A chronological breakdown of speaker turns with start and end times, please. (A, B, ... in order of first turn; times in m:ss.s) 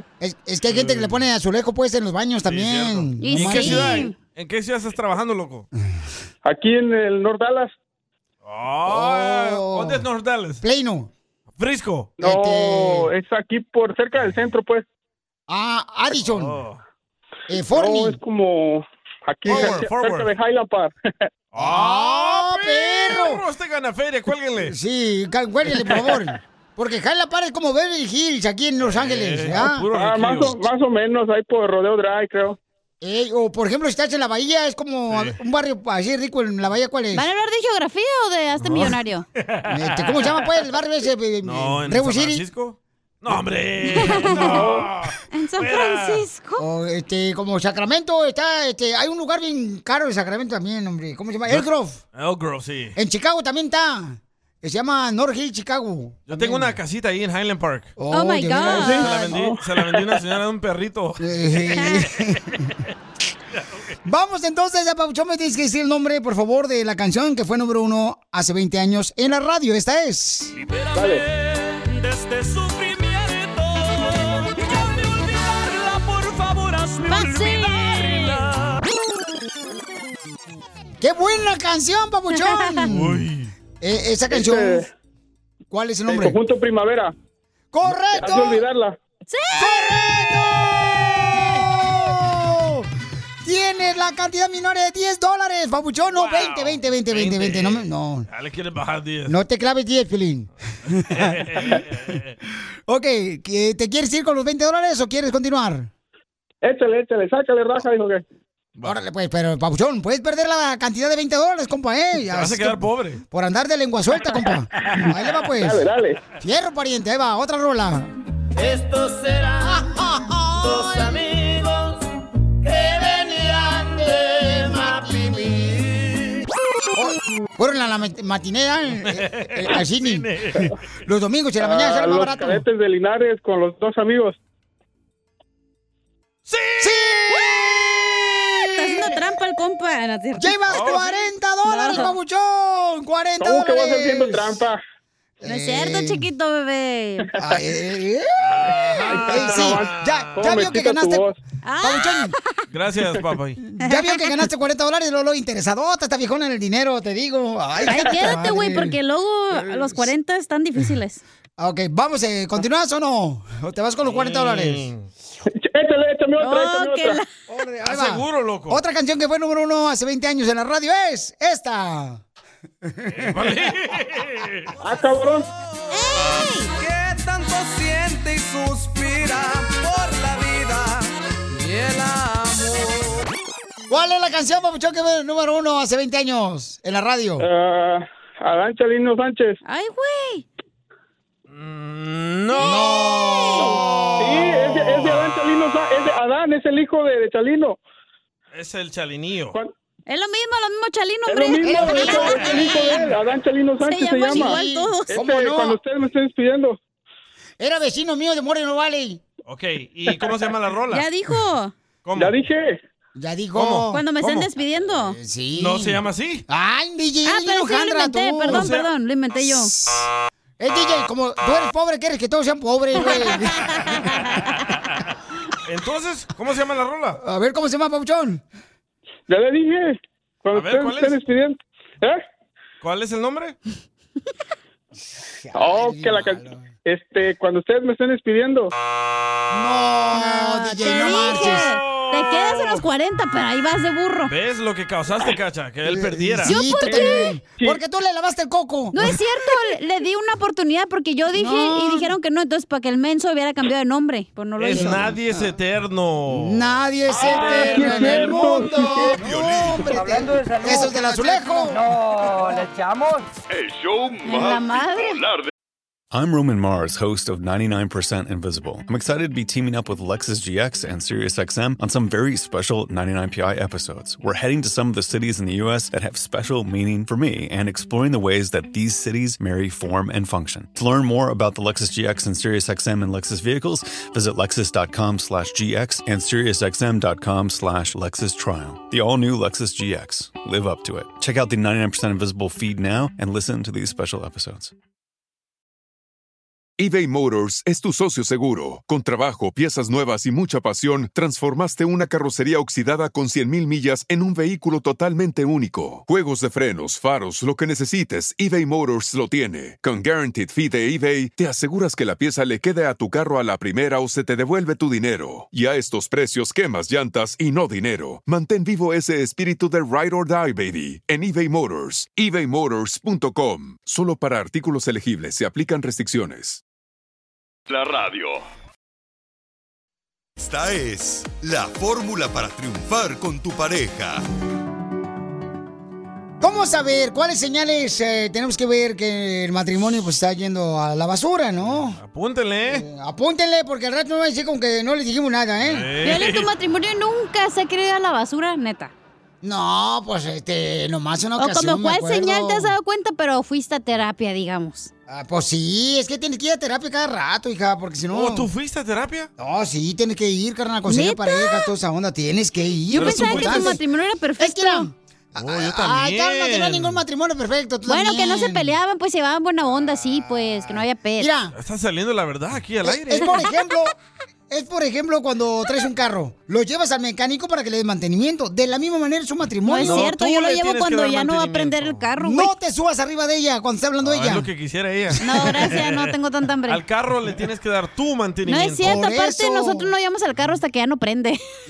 0:00.2-0:04.1 A
0:00.7-0:01.2 B
0:02.4-0:05.7 B
0:03.2-0:04.1 C
0:06.4-0:07.7 D
0:08.4-0:10.6 B
0:08.8-0:10.0 A
0:10.6-0:11.1 A
0:11.6-0:12.2 B
0:12.2-0:13.1 A
0:12.2-0:14.8 D
0:15.5-0:16.6 A
0:16.1-0:16.8 B
0:17.5-0:18.2 A
0:17.7-0:20.9 D
0:19.4-0:19.8 A
0:19.4-0:20.3 B
0:21.5-0:24.7 B
0:21.6-0:23.4 A
0:24.6-0:29.8 A
0:28.8-0:30.6 B
0:29.9-0:32.6 D
0:33.0-0:37.2 A
0:35.1-0:35.4 B
0:37.1-0:39.2 C
0:38.6-0:40.4 B
0:39.7-0:42.4 A
0:41.4-0:46.2 B
0:44.0-0:44.6 C
0:44.4-0:44.6 A
0:45.3-0:46.6 C
0:46.6-0:52.0 A
0:51.5-0:53.0 B
0:53.0-0:56.8 A
0:56.3-0:57.9 B
0:58.0-0:59.4 A
0:58.1-0:59.3 C
0:58.6-1:02.0 B
1:01.2-1:02.6 A
1:04.0-1:10.5 A
1:10.5-1:18.8 E
1:17.1-1:18.4 C
1:21.0-1:23.2 A
1:22.5-1:22.8 C
1:22.9-1:23.5 B
1:23.8-1:24.9 A
1:24.3-1:24.8 D
1:25.7-1:26.4 A
1:26.1-1:27.1 D
1:27.7-1:28.7 A
1:28.2-1:28.9 D
1:29.3-1:30.0 C
1:29.6-1:32.9 A
1:33.4-1:38.3 A
1:36.1-1:39.4 B
1:39.3-1:41.8 A
1:41.0-1:42.4 B
1:42.9-1:45.9 A
1:46.6-1:48.2 D
1:48.8-1:55.9 A
1:52.3-1:53.2 B
1:55.6-1:56.1 D
1:56.4-1:58.1 A
1:58.6-1:59.8 E
1:59.6-2:01.2 A
2:00.6-2:02.0 E
2:02.6-2:06.0 E
2:04.7-2:05.7 A
2:06.9-2:12.6 A
2:09.1-2:10.7 B
2:11.6-2:14.4 D
2:16.5-2:17.1 B
2:16.8-2:19.1 A
2:17.3-2:17.7 C
2:18.7-2:20.5 C
2:20.4-2:24.6 A
2:20.7-2:21.2 B
2:21.7-2:22.1 C
2:23.4-2:24.8 D
2:25.4-2:26.2 A
2:25.4-2:27.3 C
2:27.4-2:32.3 A
2:28.4-2:30.8 B
2:29.3-2:29.8 D
2:30.4-2:31.3 D
2:31.6-2:32.3 C
2:32.7-2:33.6 B
2:33.8-2:39.0 A
2:33.8-2:34.4 C
2:37.8-2:41.2 C
2:39.5-2:40.1 A
2:41.6-2:44.9 A
2:44.0-2:45.1 B
2:45.6-2:47.2 D
2:46.4-2:47.2 C
2:47.5-2:52.2 A
2:47.8-2:48.8 B
2:52.8-2:53.3 A
2:53.1-2:54.7 B
2:54.8-2:55.4 D
2:55.9-2:56.7 C
2:56.7-3:03.3 E
3:03.9-3:07.5 A
3:07.4-3:09.6 D
3:09.6-3:10.4 C
3:11.5-3:12.8 B
3:12.5-3:13.8 C
3:12.6-3:15.0 A
3:13.6-3:17.8 D
3:18.5-3:19.6 B
3:20.1-3:23.1 C
3:21.3-3:24.6 D
3:21.6-3:23.1 A
3:23.8-3:25.2 C
3:24.2-3:25.8 A
3:25.1-3:26.8 D
3:27.6-3:29.2 A
3:29.4-3:31.0 B
3:30.9-3:31.7 C
3:32.0-3:32.4 B
3:32.2-3:32.8 D
3:33.2-3:34.0 A
3:33.5-3:34.5 B
3:33.9-3:35.2 C
3:34.9-3:38.7 A
3:35.6-3:36.4 B
3:37.2-3:39.7 C
3:38.5-3:38.9 B
3:39.4-3:40.1 A
3:40.6-3:44.0 A
3:45.6-3:47.2 B
3:47.2-3:48.4 A
3:49.3-3:52.2 D
3:50.5-3:51.2 B
3:52.8-3:53.6 B
3:55.4-3:56.7 A
3:55.6-3:58.7 D
3:59.5-4:01.7 A
4:00.1-4:04.3 C
4:00.9-4:02.8 B
4:04.3-4:06.6 B
4:05.9-4:09.2 A
4:06.4-4:07.3 C
4:06.9-4:07.8 D
4:08.9-4:15.0 C
4:11.3-4:12.1 A
4:14.6-4:18.4 B
4:14.7-4:15.5 A
4:16.3-4:21.8 A
4:17.7-4:19.1 D
4:19.1-4:20.0 F
4:19.9-4:23.3 G
4:23.5-4:25.5 H
4:24.2-4:25.2 C
4:26.1-4:54.7 I
4:56.8-5:26.6 J
5:27.7-5:28.4 H
5:30.4-5:34.2 F
5:36.4-5:42.0 A
5:41.9-5:42.8 B
5:42.7-5:45.9 A
5:45.6-5:46.5 B
5:46.0-5:48.9 C
5:49.4-5:52.7 A
5:51.4-5:54.9 C
5:55.1-5:58.5 A
5:58.1-5:59.3 B
5:59.4-6:03.8 A
6:00.9-6:01.7 C
6:02.9-6:04.9 C
6:03.0-6:03.8 B
6:04.4-6:08.7 A
6:05.4-6:07.0 B
6:07.9-6:11.3 C
6:10.1-6:11.5 A
6:11.5-6:13.4 B
6:12.8-6:13.9 A
6:14.5-6:20.1 A
6:19.6-6:22.5 C
6:19.8-6:22.1 B
6:22.2-6:24.5 A
6:24.0-6:26.1 B
6:25.2-6:26.8 C
6:26.7-6:29.0 B
6:28.5-6:31.4 C
6:28.8-6:29.9 A